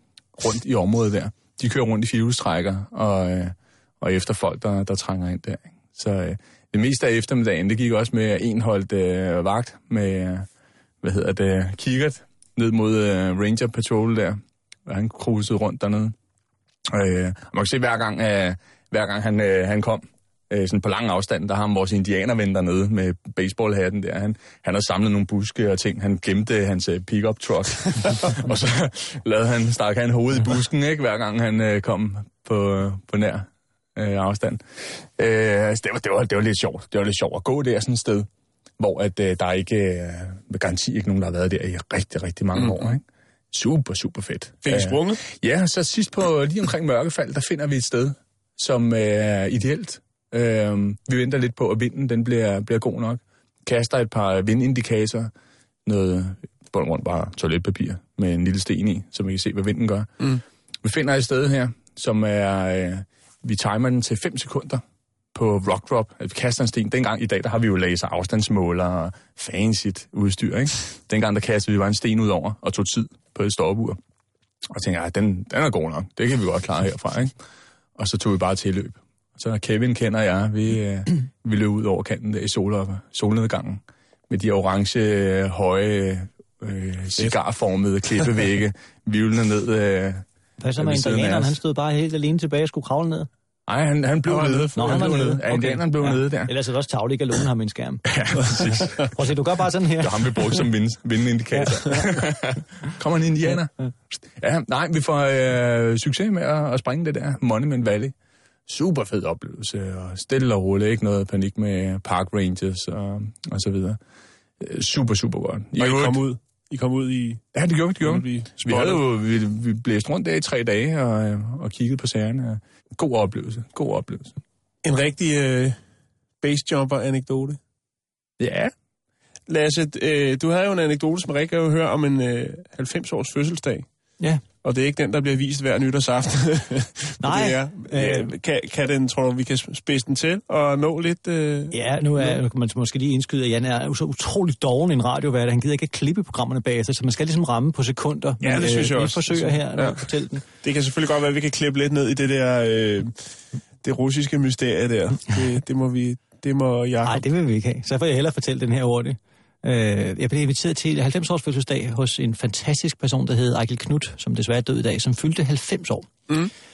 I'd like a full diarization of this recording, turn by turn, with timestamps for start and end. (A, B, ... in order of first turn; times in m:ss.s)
0:00.4-0:10.5 A
0:11.0-0:16.1 A
0:16.9-0:38.3 A
0:38.8-0:55.3 A
0:44.6-0:45.2 B
0:55.8-1:00.3 A
1:00.8-1:04.8 A
1:05.3-1:14.0 A
1:14.7-1:17.3 A
1:18.0-1:30.2 A
1:30.6-1:33.3 C
1:30.8-1:31.5 A
1:33.7-1:36.5 A
1:34.2-1:35.4 B
1:34.7-1:40.6 C
1:38.0-1:39.1 A
1:40.0-1:43.7 A
1:41.5-1:42.2 C
1:44.2-1:48.1 A
1:48.7-1:54.0 A
1:54.6-1:56.2 A
1:55.8-1:57.4 B
1:57.5-2:04.3 A
1:58.0-1:59.0 B
2:04.8-2:05.8 B
2:06.4-2:07.6 B
2:08.4-2:08.7 A
2:09.5-2:13.9 B
2:14.6-2:22.4 B
2:17.2-2:18.3 C
2:21.7-2:30.4 C
2:28.4-2:30.1 B
2:30.6-2:33.1 B
2:33.8-2:37.2 B
2:37.0-2:46.1 C